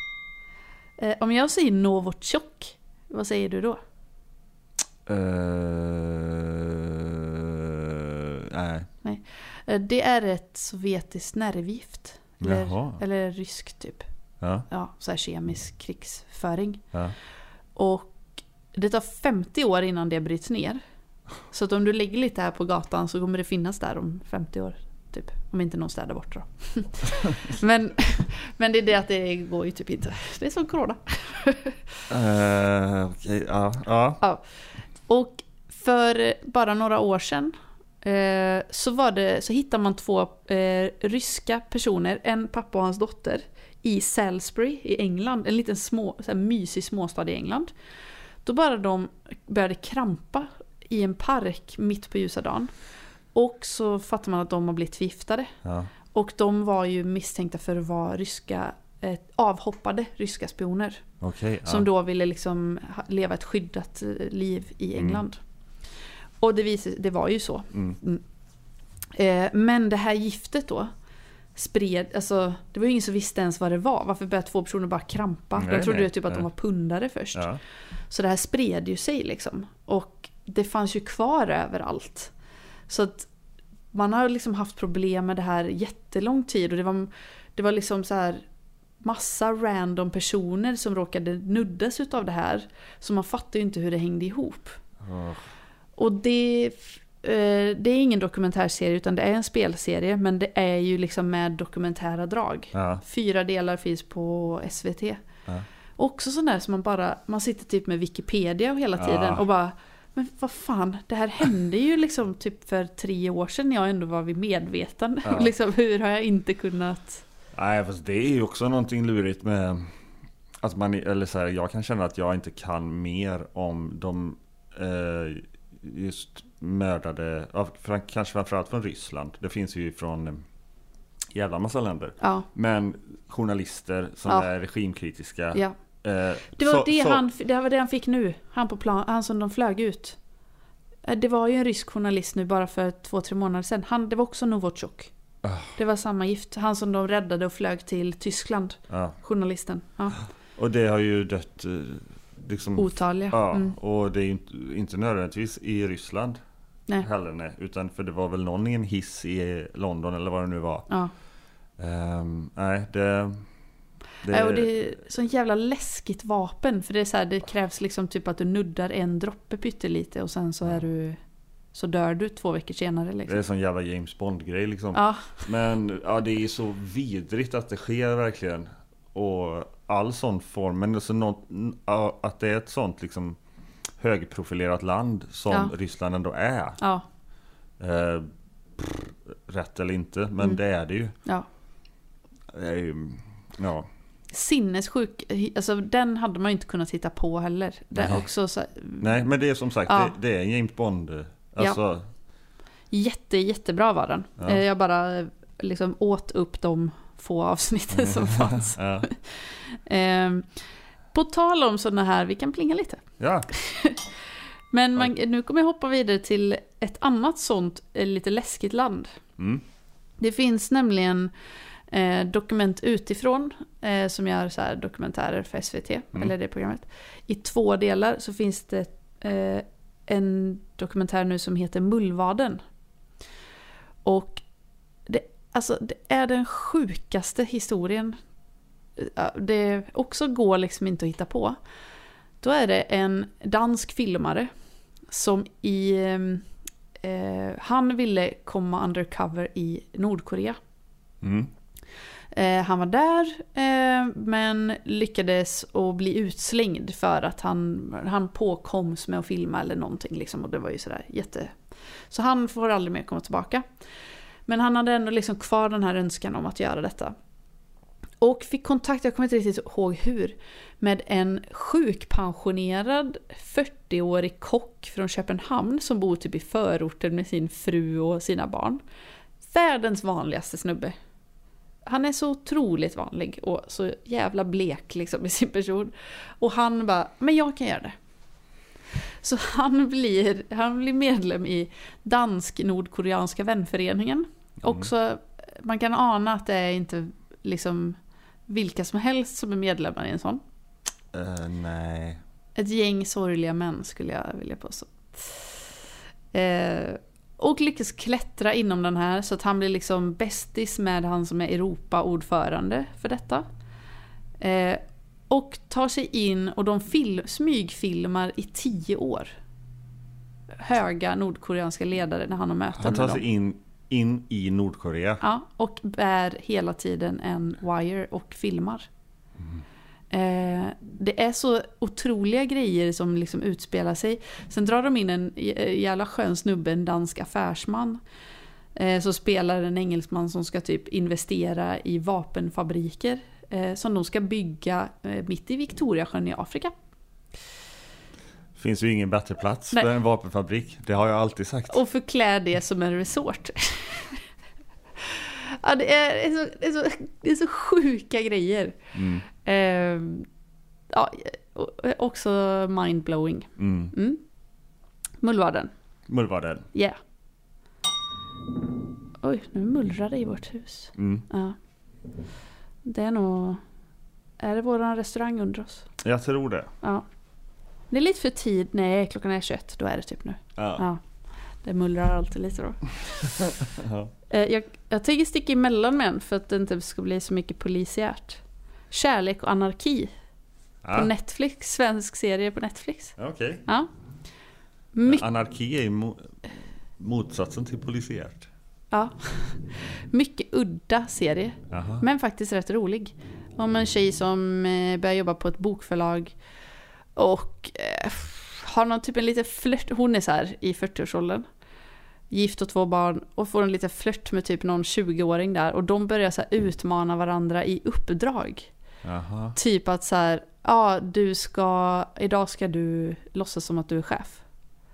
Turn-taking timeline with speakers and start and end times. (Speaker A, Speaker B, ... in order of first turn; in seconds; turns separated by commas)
Speaker A: 1.0-3.8, Speaker B: 5.0-8.9, Speaker A: 9.0-14.0, Speaker B: 12.4-13.0, Speaker A: 14.7-16.8, Speaker A: 17.8-20.8, Speaker A: 21.5-31.8, Speaker B: 32.1-34.2, Speaker A: 35.1-47.7, Speaker A: 48.4-52.7, Speaker A: 53.3-55.5, Speaker B: 55.6-55.9, Speaker A: 56.1-61.0, Speaker B: 61.2-61.9, Speaker A: 61.6-65.4, Speaker B: 65.0-65.2, Speaker A: 66.4-68.2, Speaker A: 69.1-70.9, Speaker A: 71.5-77.5, Speaker B: 75.6-76.5, Speaker B: 77.3-77.6, Speaker A: 78.1-82.3, Speaker A: 82.9-83.3, Speaker A: 83.9-88.4, Speaker A: 89.0-94.8, Speaker B: 95.0-95.4, Speaker A: 96.0-105.2, Speaker B: 102.7-103.0, Speaker A: 106.0-117.2, Speaker B: 109.0-109.4, Speaker B: 115.2-115.5, Speaker B: 117.5-119.9, Speaker B: 120.6-130.4, Speaker B: 131.3-137.2, Speaker A: 132.2-132.4, Speaker A: 136.5-140.2, Speaker A: 141.1-145.1, Speaker B: 145.4-145.8, Speaker A: 145.8-150.2, Speaker B: 148.9-149.2, Speaker B: 150.6-156.4, Speaker A: 152.8-153.8, Speaker B: 157.0-160.9, Speaker B: 161.8-163.4, Speaker B: 164.2-164.7, Speaker A: 164.3-171.2, Speaker A: 171.7-173.4, Speaker B: 173.3-183.4, Speaker A: 174.9-175.4, Speaker B: 184.0-186.8, Speaker B: 187.8-188.2, Speaker B: 188.8-191.1, Speaker B: 192.5-193.9, Speaker A: 194.3-199.2, Speaker B: 197.9-198.2, Speaker B: 199.0-202.1, Speaker A: 199.8-200.1, Speaker A: 202.9-210.5, Speaker B: 207.9-209.1, Speaker A: 211.1-214.1, Speaker B: 213.2-213.5, Speaker A: 214.7-219.2, Speaker B: 219.4-219.6, Speaker A: 220.2-221.3, Speaker A: 221.9-232.6, Speaker A: 234.0-234.4, Speaker A: 235.1-238.2, Speaker A: 239.0-241.6, Speaker A: 242.4-244.5, Speaker A: 245.1-246.4, Speaker A: 247.0-250.6, Speaker B: 251.2-251.5, Speaker A: 252.3-261.5, Speaker A: 262.1-263.6, Speaker A: 264.5-267.1, Speaker A: 268.2-278.8, Speaker A: 279.4-280.9, Speaker A: 281.9-287.9, Speaker A: 289.2-298.0, Speaker A: 298.5-300.4, Speaker B: 301.1-302.2, Speaker A: 302.6-305.6, Speaker A: 306.3-313.4, Speaker A: 314.4-319.3, Speaker A: 320.6-323.2, Speaker B: 322.8-325.2, Speaker A: 325.2-328.9, Speaker A: 330.1-338.0, Speaker A: 338.7-346.7, Speaker B: 348.6-351.8, Speaker A: 351.7-354.2, Speaker A: 355.0-358.8, Speaker B: 358.9-359.2, Speaker A: 359.4-360.3, Speaker A: 360.9-364.2, Speaker B: 363.6-363.9, Speaker A: 365.2-365.7, Speaker B: 366.1-366.7, Speaker A: 366.7-367.0, Speaker A: 369.2-371.6, Speaker B: 370.9-371.2, Speaker A: 372.8-373.6, Speaker A: 374.4-375.9, Speaker B: 376.0-376.7, Speaker A: 377.9-381.0, Speaker B: 380.6-380.8, Speaker A: 381.6-382.9, Speaker B: 383.4-384.1, Speaker A: 384.3-390.1, Speaker B: 390.8-391.1, Speaker A: 390.9-393.1, Speaker B: 393.2-393.6, Speaker A: 394.9-395.2, Speaker B: 395.1-396.4, Speaker B: 397.0-398.5, Speaker A: 398.9-406.3, Speaker B: 401.7-402.0, Speaker A: 407.1-411.4, Speaker A: 412.3-418.7, Speaker B: 419.0-419.6, Speaker A: 419.5-424.4